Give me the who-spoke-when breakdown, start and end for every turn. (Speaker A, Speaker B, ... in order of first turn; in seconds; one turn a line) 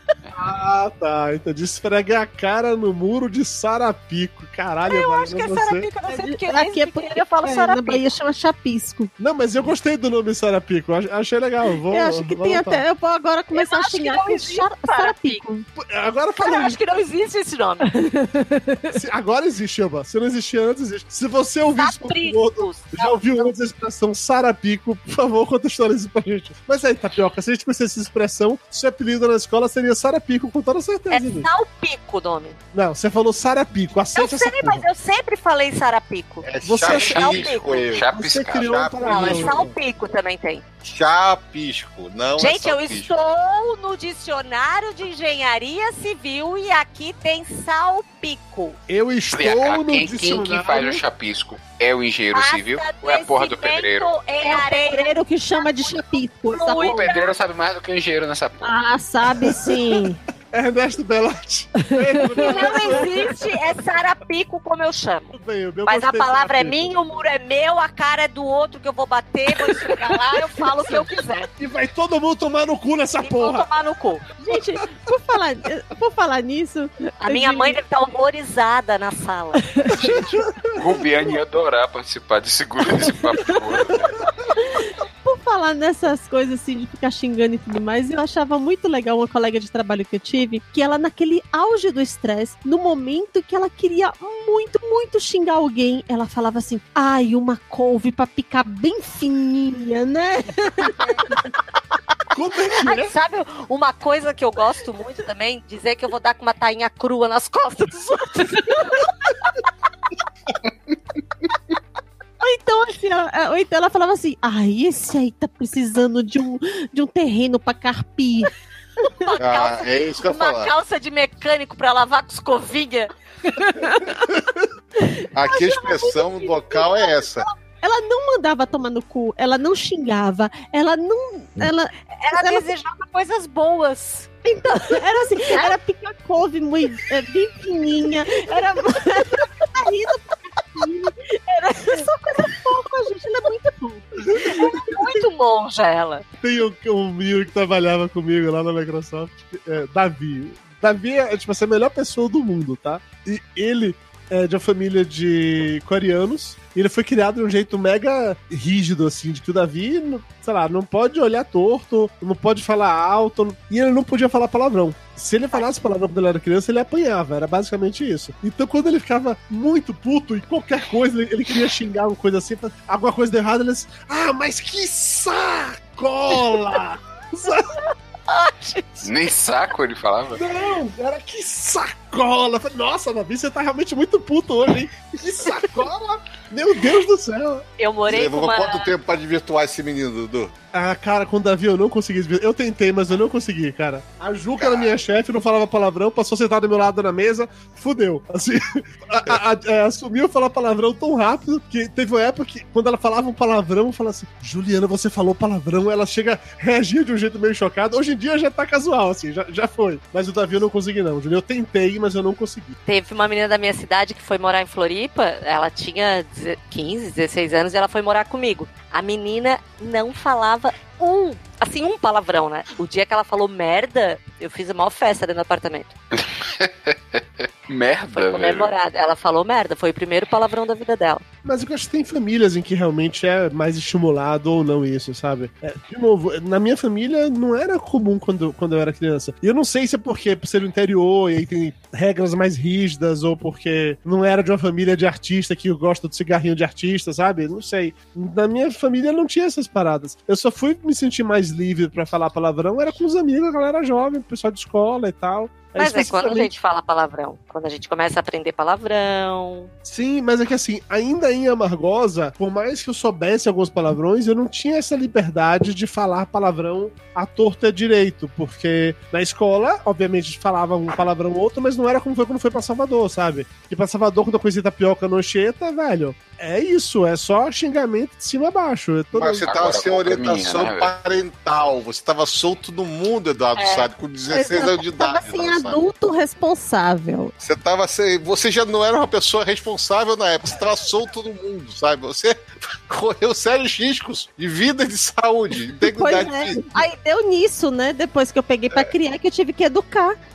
Speaker A: 0.3-5.9
Speaker B: 4.8-8.1
Speaker C: 6.0-9.1
Speaker A: 9.2-12.8
Speaker C: 11.9-15.7
Speaker B: 13.5-15.4
Speaker A: 15.7-16.8
Speaker B: 16.4-17.9
Speaker C: 17.9-18.9
Speaker A: 18.9-31.5
Speaker B: 21.8-23.5
Speaker B: 31.1-32.6
Speaker A: 32.7-34.9
Speaker B: 34.1-37.8
Speaker D: 36.4-39.6
Speaker A: 36.6-37.4
Speaker E: 36.8-38.7
Speaker A: 38.1-39.7
Speaker B: 39.0-40.6
Speaker D: 40.8-43.1
Speaker B: 42.4-48.8
Speaker A: 48.9-51.0
Speaker E: 49.3-54.1
Speaker B: 52.3-57.3
Speaker C: 54.4-57.1
Speaker E: 56.8-58.6
Speaker C: 58.6-60.2
Speaker A: 59.4-63.4
Speaker C: 61.9-63.3
Speaker B: 62.4-71.5
Speaker A: 65.3-67.0
Speaker A: 71.6-73.7
Speaker B: 73.2-74.3
Speaker C: 74.4-77.8
Speaker B: 77.2-79.7
Speaker E: 79.9-84.2
Speaker C: 84.7-101.4
Speaker A: 102.3-103.1
Speaker B: 102.8-109.0
Speaker C: 112.4-118.5
Speaker B: 119.1-123.1
Speaker D: 119.4-120.7
Speaker C: 123.6-124.2
Speaker C: 125.0-132.7
Speaker D: 125.3-127.5
Speaker B: 132.1-134.3
Speaker C: 134.4-144.8
Speaker B: 135.5-135.8
Speaker A: 144.2-144.7
Speaker B: 144.4-146.2
Speaker A: 146.4-177.7
Speaker C: 178.3-179.0
Speaker E: 179.0-180.4
Speaker A: 180.3-187.6
Speaker B: 187.8-188.9
Speaker D: 188.1-190.5
Speaker A: 190.7-212.7
Speaker B: 212.8-225.9
Speaker E: 226.2-228.7
Speaker B: 228.1-231.2
Speaker A: 231.4-256.5
Speaker B: 255.8-259.7
Speaker A: 259.8-279.5
Speaker D: 279.1-285.8
Speaker E: 279.4-280.9
Speaker B: 283.6-283.9
Speaker C: 284.3-287.3
Speaker D: 287.4-296.8
Speaker C: 295.8-300.2